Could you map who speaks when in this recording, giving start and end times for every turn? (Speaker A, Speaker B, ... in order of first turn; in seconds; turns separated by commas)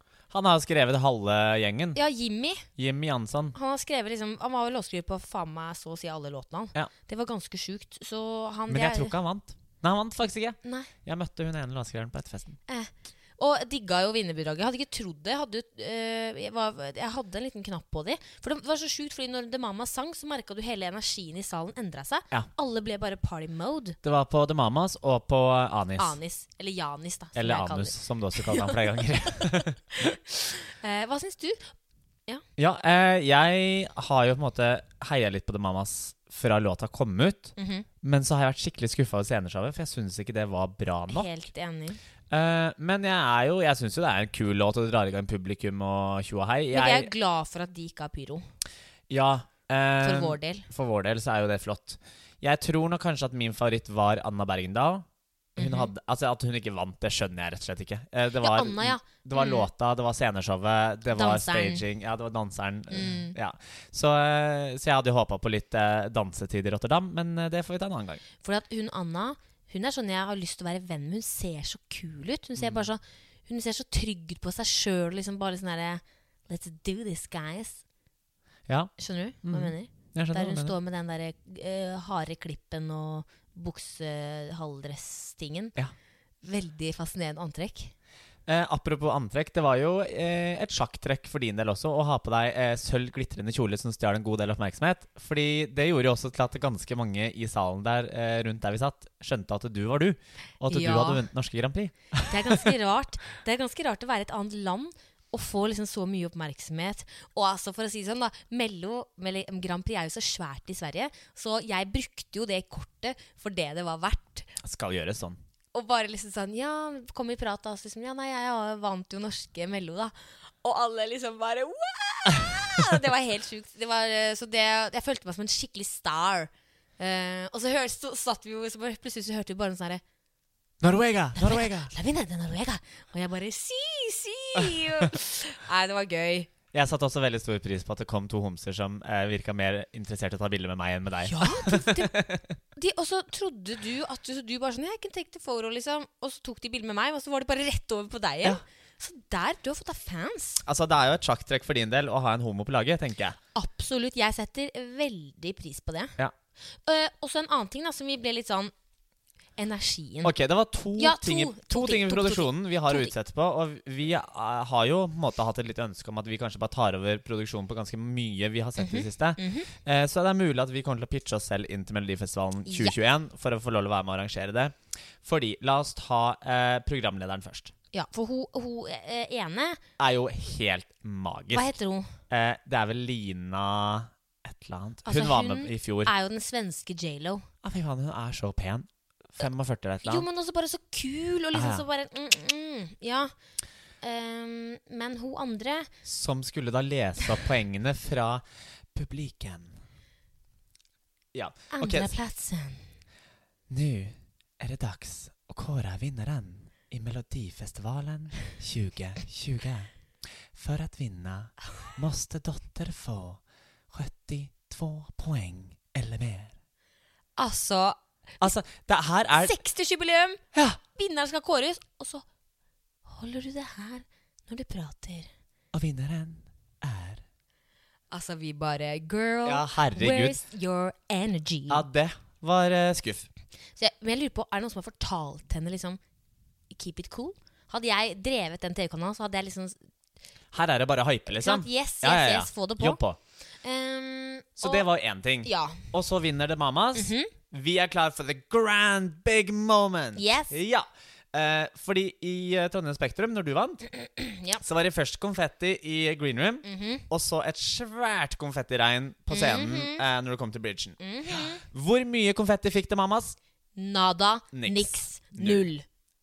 Speaker A: 0.3-2.0, Speaker B: 1.9-2.7, Speaker A: 2.8-3.6, Speaker B: 3.5-9.2, Speaker A: 8.7-12.6, Speaker B: 10.6-10.9, Speaker B: 12.7-24.0, Speaker A: 24.0-26.2, Speaker B: 26.0-29.5, Speaker A: 27.4-30.2, Speaker B: 30.0-31.7, Speaker A: 32.6-41.3, Speaker B: 37.6-37.9, Speaker B: 41.1-42.0, Speaker A: 42.3-47.1, Speaker B: 46.7-48.5, Speaker A: 49.1-55.1, Speaker B: 50.0-50.7, Speaker B: 55.6-55.9, Speaker A: 55.6-68.2, Speaker B: 58.4-59.7, Speaker B: 61.1-61.9, Speaker B: 62.9-63.4, Speaker B: 68.4-77.8, Speaker A: 72.6-72.9, Speaker A: 78.7-80.7, Speaker B: 79.0-85.8, Speaker B: 86.4-87.9, Speaker A: 88.5-102.7, Speaker B: 100.7-101.2, Speaker B: 102.2-114.5, Speaker A: 114.6-115.4, Speaker B: 115.7-130.0, Speaker A: 130.8-131.9, Speaker B: 131.4-136.5, Speaker A: 136.7-142.5, Speaker B: 141.3-142.2, Speaker B: 142.7-150.6, Speaker A: 150.7-153.4, Speaker B: 153.6-156.2, Speaker B: 156.8-158.7, Speaker B: 159.6-160.3, Speaker A: 160.2-177.7, Speaker B: 160.9-163.1, Speaker B: 168.8-169.7, Speaker B: 172.7-173.0, Speaker B: 177.9-179.8, Speaker A: 180.0-181.7, Speaker B: 181.5-182.2, Speaker A: 182.3-186.1, Speaker B: 185.1-187.5, Speaker A: 187.6-190.3, Speaker B: 190.1-193.3, Speaker A: 191.5-191.8, Speaker B: 194.0-195.9, Speaker A: 196.1-199.8, Speaker A: 201.3-202.1, Speaker B: 201.7-202.9, Speaker A: 203.7-209.9, Speaker A: 210.5-216.5, Speaker B: 217.4-218.5, Speaker A: 218.4-219.6, Speaker B: 219.3-220.4, Speaker A: 220.5-220.8, Speaker B: 220.9-222.2, Speaker B: 223.1-225.3, Speaker A: 225.7-227.2, Speaker B: 228.1-231.8, Speaker A: 229.4-230.4, Speaker A: 231.7-233.3, Speaker B: 233.8-236.0, Speaker B: 236.7-239.8, Speaker A: 240.5-243.2, Speaker B: 241.3-243.0, Speaker B: 243.6-244.9, Speaker A: 244.6-253.8, Speaker B: 245.4-245.9, Speaker B: 246.9-247.3, Speaker B: 250.2-250.6, Speaker B: 253.9-254.6, Speaker A: 254.6-261.0, Speaker B: 256.6-257.1, Speaker B: 259.3-260.0, Speaker B: 261.0-261.6, Speaker A: 261.6-263.4, Speaker B: 263.8-265.9, Speaker A: 264.5-265.6